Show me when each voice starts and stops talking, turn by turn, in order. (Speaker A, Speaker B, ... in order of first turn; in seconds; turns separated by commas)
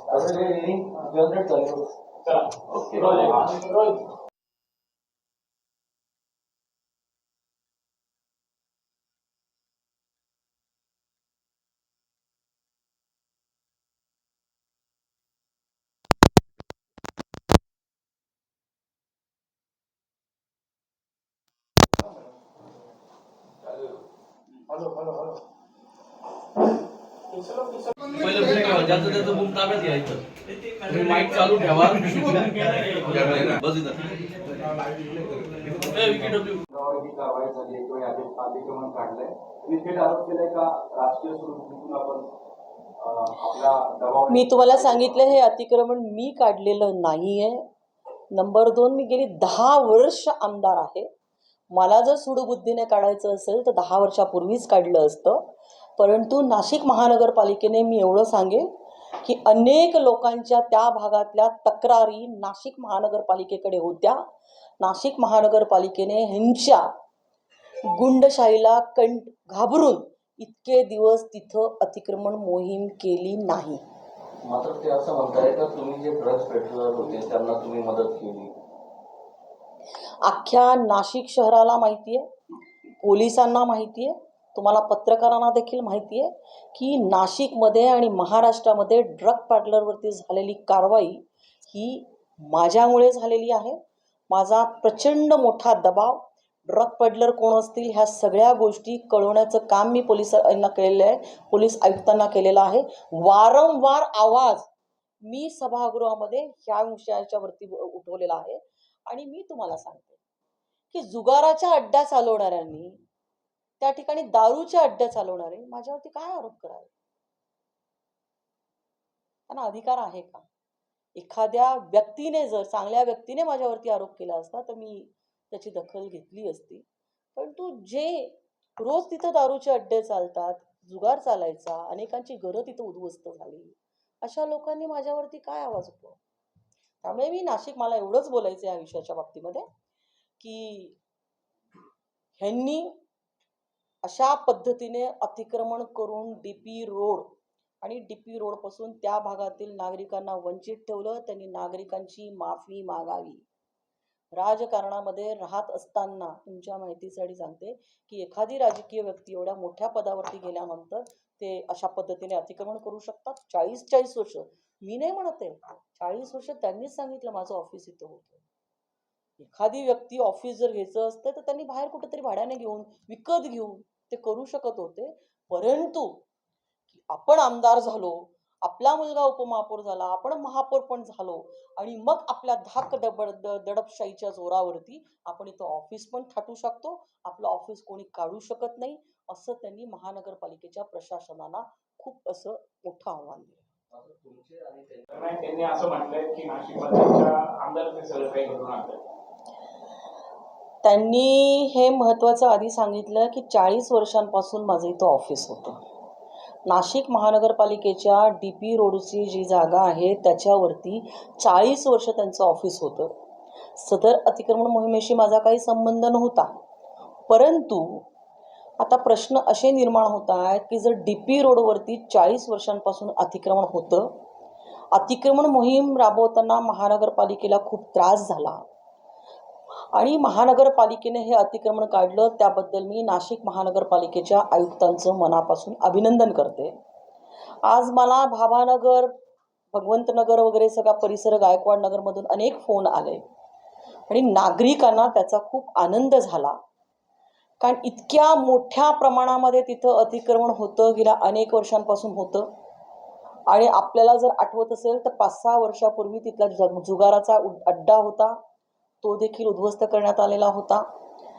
Speaker A: 0.1-1.9, Speaker B: 2.2-4.1, Speaker C: 24.8-25.2, Speaker B: 27.3-28.8, Speaker A: 28.2-29.0, Speaker D: 28.3-30.2, Speaker D: 30.8-34.1, Speaker D: 35.7-36.7, Speaker C: 36.7-42.3, Speaker C: 43.2-45.0, Speaker E: 44.3-47.7, Speaker E: 48.3-51.1, Speaker E: 51.7-58.7, Speaker E: 59.2-64.2, Speaker E: 64.8-66.9, Speaker E: 67.8-73.8, Speaker A: 74.4-78.6, Speaker E: 80.2-82.3, Speaker E: 83.0-93.8, Speaker E: 94.3-104.7, Speaker E: 105.3-110.2, Speaker E: 110.9-113.0, Speaker E: 113.8-116.9, Speaker E: 119.5-120.5, Speaker E: 121.2-126.8, Speaker E: 127.4-136.2, Speaker E: 137.0-139.7, Speaker E: 140.4-141.0, Speaker E: 142.4-143.0, Speaker E: 144.0-153.4, Speaker E: 154.3-168.4, Speaker E: 169.4-176.2, Speaker E: 176.9-193.6, Speaker A: 193.9-195.1, Speaker B: 195.1-199.0, Speaker E: 200.8-205.8, Speaker E: 206.7-213.2, Speaker E: 213.8-216.5, Speaker E: 217.3-218.1, Speaker E: 218.8-224.2, Speaker E: 224.9-228.6, Speaker E: 229.9-236.8, Speaker E: 237.6-239.1, Speaker E: 239.7-243.2, Speaker E: 244.1-246.6, Speaker E: 247.6-252.5, Speaker E: 253.5-258.4, Speaker E: 259.0-260.9